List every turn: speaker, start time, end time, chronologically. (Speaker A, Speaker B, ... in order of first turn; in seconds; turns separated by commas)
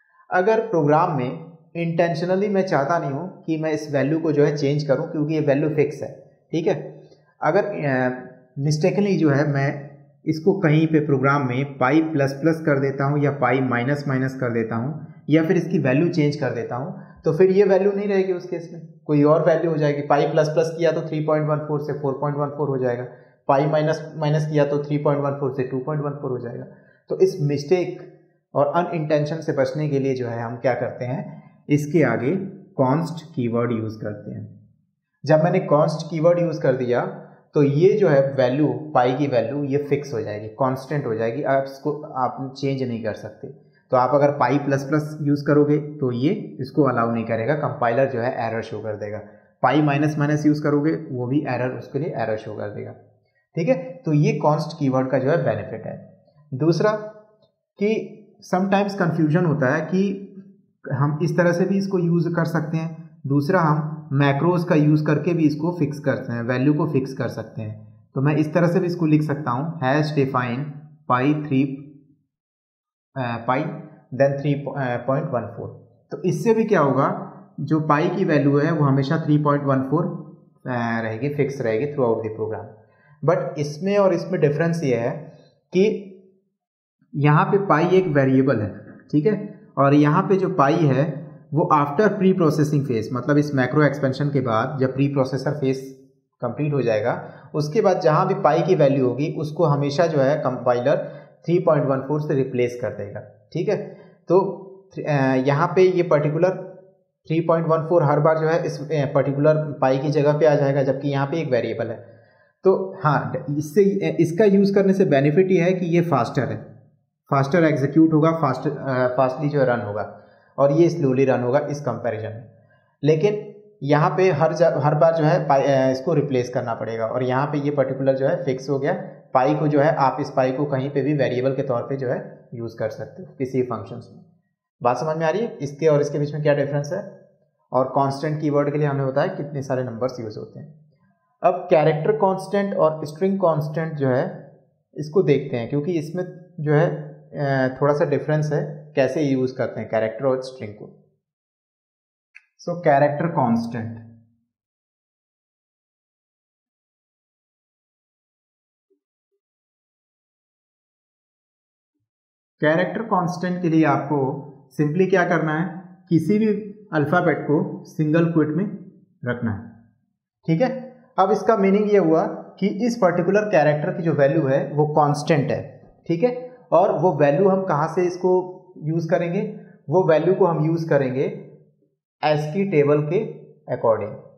Speaker A: 0.3-6.9, Speaker A: 7.4-34.5, Speaker A: 35.3-53.0, Speaker A: 53.5-57.1, Speaker A: 57.8-60.3, Speaker A: 60.9-71.9, Speaker A: 73.2-86.2, Speaker A: 87.2-112.0, Speaker A: 112.6-116.7, Speaker A: 117.3-122.5, Speaker A: 123.0-134.2, Speaker A: 134.8-137.1, Speaker A: 137.7-140.7, Speaker A: 141.4-144.4, Speaker A: 145.0-150.9, Speaker A: 152.6-154.0, Speaker A: 162.6-169.7, Speaker A: 170.4-181.4, Speaker A: 182.2-184.2